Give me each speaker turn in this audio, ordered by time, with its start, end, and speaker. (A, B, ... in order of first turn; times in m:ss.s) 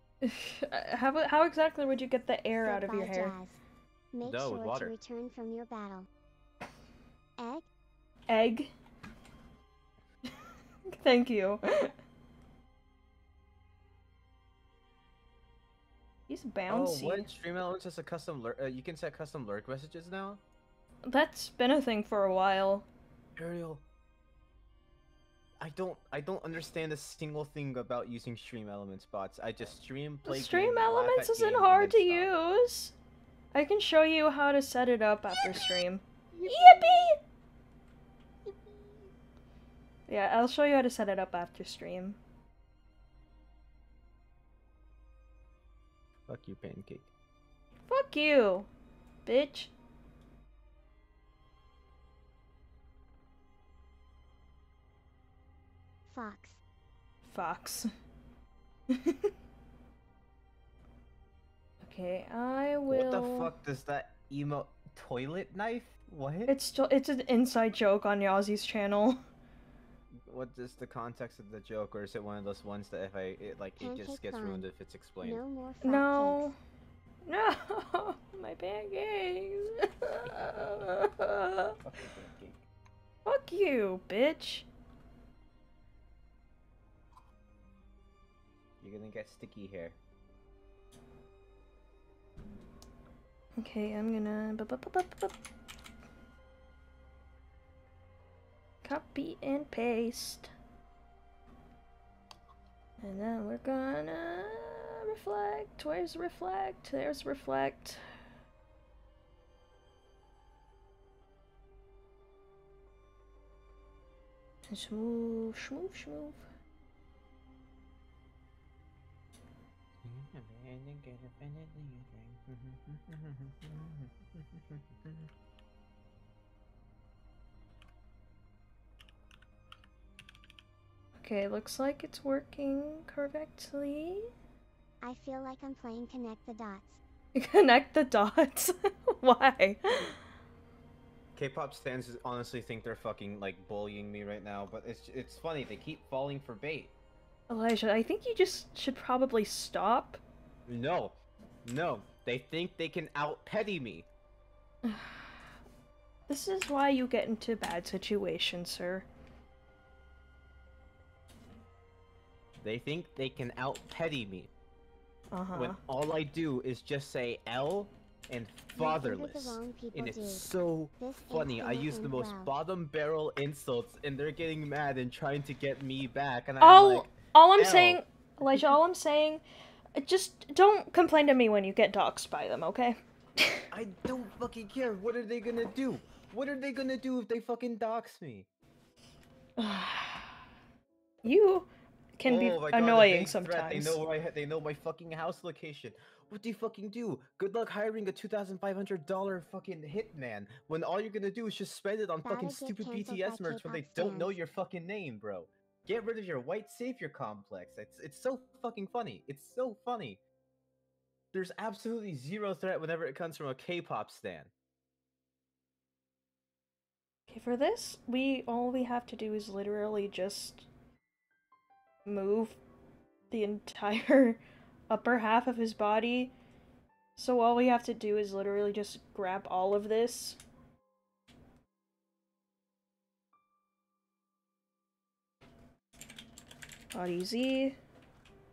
0:00.2-0:03.3 A
0:02.6-0:03.6 B
0:04.1-0:06.1 B
0:04.2-0:04.9 C
0:07.4-0:07.7 B
0:08.3-0:08.7 A
0:10.9-0:11.9 A
0:16.3-0:17.3 A
0:16.7-0:20.4 C
0:21.1-0:22.9 A
0:23.4-0:23.8 C
0:25.6-0:32.3 C
0:30.3-0:33.0 A
0:33.5-0:37.2 A
0:36.4-0:37.0 C
0:40.1-0:42.2 A
0:46.3-0:47.1 C
0:47.9-0:48.7 A
0:49.3-0:49.7 A
0:56.1-0:56.6 B
0:57.3-0:57.9 A
0:58.9-0:59.3 A
1:01.8-1:03.5 A
1:02.9-1:06.5 C
1:06.5-1:09.2 A
1:10.2-1:15.4 C
1:13.8-1:14.7 B
1:15.2-1:16.5 B
1:15.8-1:16.6 A
1:17.3-1:21.8 A
1:21.8-1:22.6 C
1:23.2-1:24.7 A
1:28.8-1:30.0 C
1:33.6-1:35.4 A
1:38.8-1:40.5 A
1:43.0-1:48.0 A
1:54.7-1:56.4 A
2:00.0-2:05.3 C
2:11.2-2:14.3 A
2:15.0-2:17.0 B
2:17.4-2:20.2 A
2:21.4-2:26.9 C
2:27.5-2:30.2 A
2:30.7-2:34.1 C
2:34.8-2:35.3 A
2:36.3-2:39.1 A
2:42.6-2:44.5 C
2:45.3-2:45.8 A
2:45.5-2:58.0 C
2:48.8-2:52.5 B
2:56.6-2:59.4 A
3:00.0-3:03.6 A
3:03.7-3:08.5 C
3:09.6-3:10.3 A
3:11.2-3:14.0 A
3:12.3-3:30.2 C
3:22.2-3:24.4 B
3:31.3-3:34.5 C
3:37.3-3:40.7 A
3:42.1-3:42.6 A
3:43.3-3:46.3 A
3:47.2-3:50.4 A
3:56.9-3:57.8 A